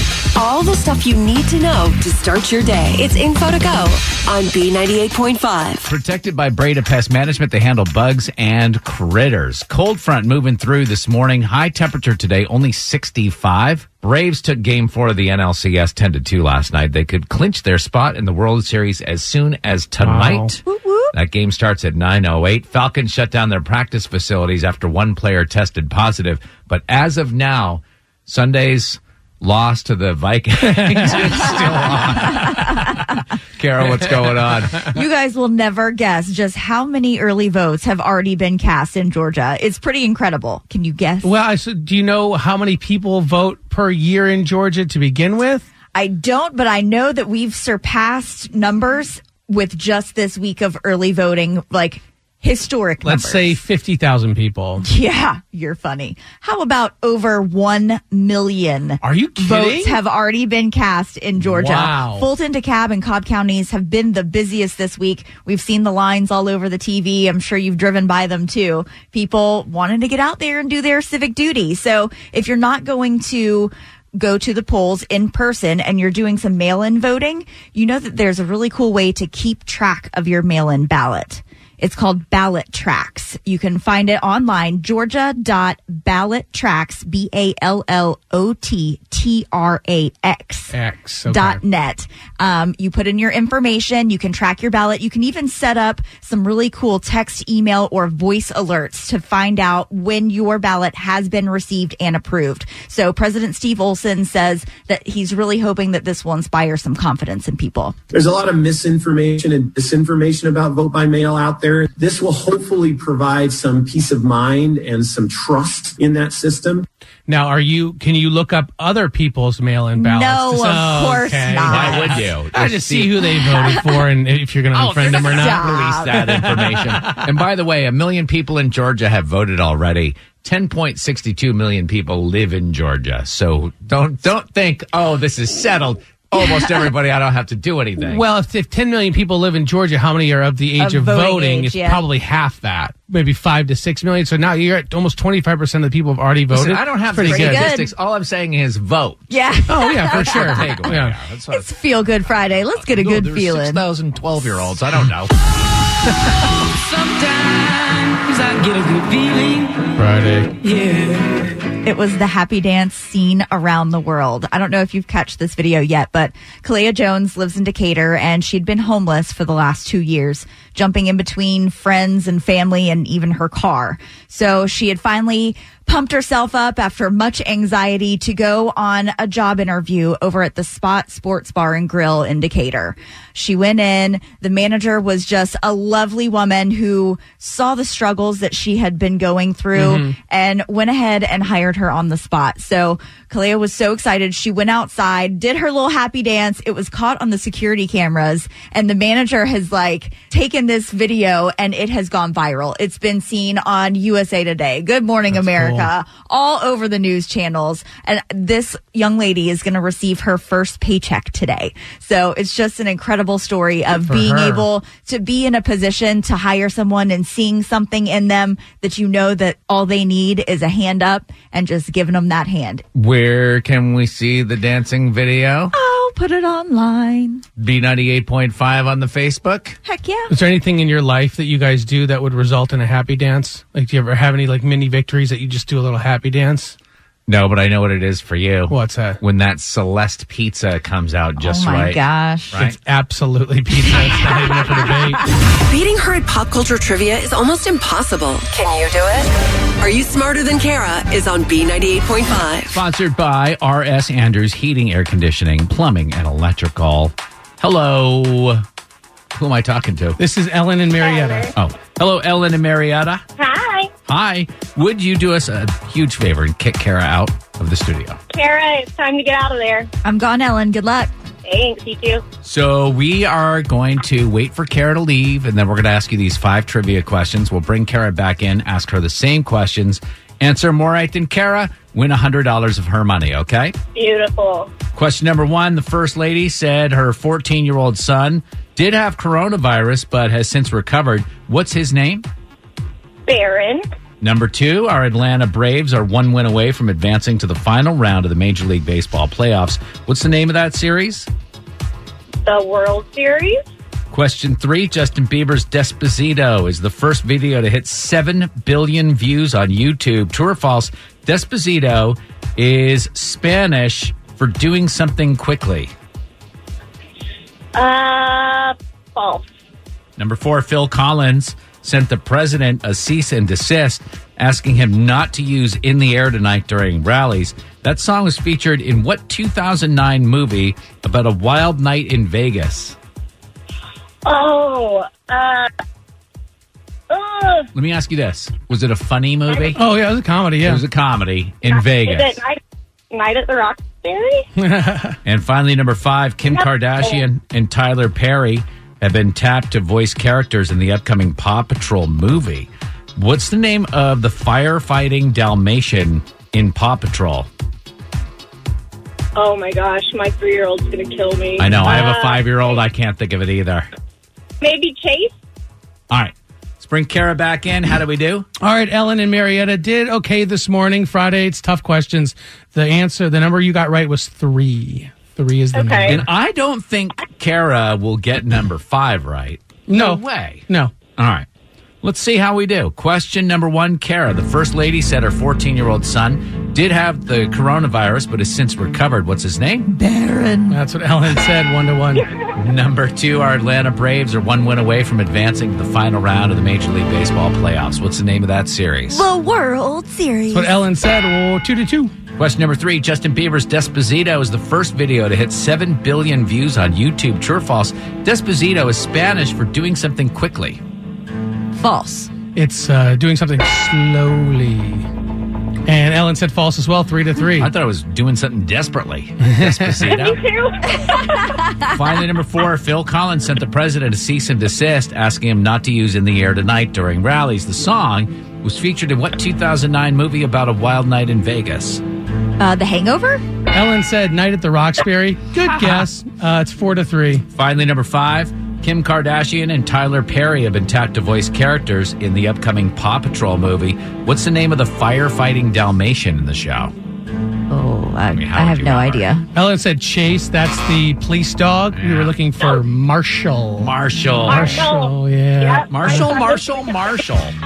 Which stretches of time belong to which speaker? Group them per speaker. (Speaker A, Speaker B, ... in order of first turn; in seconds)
Speaker A: 0.3-5.9, 245.6-252.8
Speaker B: 5.8-20.6, 21.1-34.9, 121.7-123.2, 124.7-138.2, 146.5-149.3, 150.0-151.7, 152.3-155.3, 222.9-225.7, 227.6-229.8, 237.3-242.0, 242.5-242.8, 252.7-258.6, 259.3-260.2, 261.5-263.2, 264.1-268.2, 272.4-283.7, 284.9-292.2, 294.2-301.3, 304.1-315.9, 320.2-333.0, 337.7-339.8, 340.6-342.4, 345.2-357.5, 361.6-363.9, 366.1-368.5, 376.0-380.6, 381.2-381.5, 382.0-389.9, 392.5-399.3, 402.4-410.8, 417.5-420.4, 421.9-432.0, 435.6-436.1, 437.5-446.9, 448.3-449.3, 451.9-452.3, 453.8-454.8, 455.9-457.6
Speaker C: 20.0-20.5, 41.2-45.6, 53.0-54.8, 59.0-60.0, 61.4-62.3, 90.7-91.6, 117.3-127.2, 138.0-147.7, 149.7-151.2, 160.0-160.5, 189.7-190.1, 205.3-205.9, 213.9-214.7, 230.3-236.7, 238.7-239.2, 242.6-245.2, 260.2-261.5, 339.8-340.8, 344.6-345.2, 368.6-376.3, 379.9-380.9, 390.7-392.3, 400.5-402.1, 412.5-415.1, 415.9-417.7, 419.4-420.1, 433.7-437.4, 449.5-453.9, 454.5-456.4
Speaker D: 20.6-21.1, 32.3-33.0, 34.8-41.3, 45.9-53.6, 54.8-90.7, 91.3-107.9, 119.9-122.3, 123.5-123.9, 125.2-126.2, 140.8-142.0, 147.2-147.9, 149.3-150.8, 151.5-153.8, 161.8-222.8, 225.7-227.4, 229.8-230.3, 241.4-242.6, 270.0-271.1, 389.9-390.8, 399.1-400.8, 411.7-412.3, 432.6-433.4, 447.7-449.4
Speaker E: 108.1-116.8
Speaker F: 156.7-159.9, 160.6-161.2
Speaker G: 261.0-261.5, 263.4-263.9, 268.3-269.9, 271.4-272.2, 283.9-284.7, 293.2-293.9, 302.4-303.6, 317.7-319.5, 334.2-335.7, 337.1-337.7, 339.5-339.8, 341.7-342.6, 343.1-344.4, 346.5-347.2, 359.3-362.8, 364.6-365.3, 375.7-376.1, 420.1-421.6, 454.5-457.1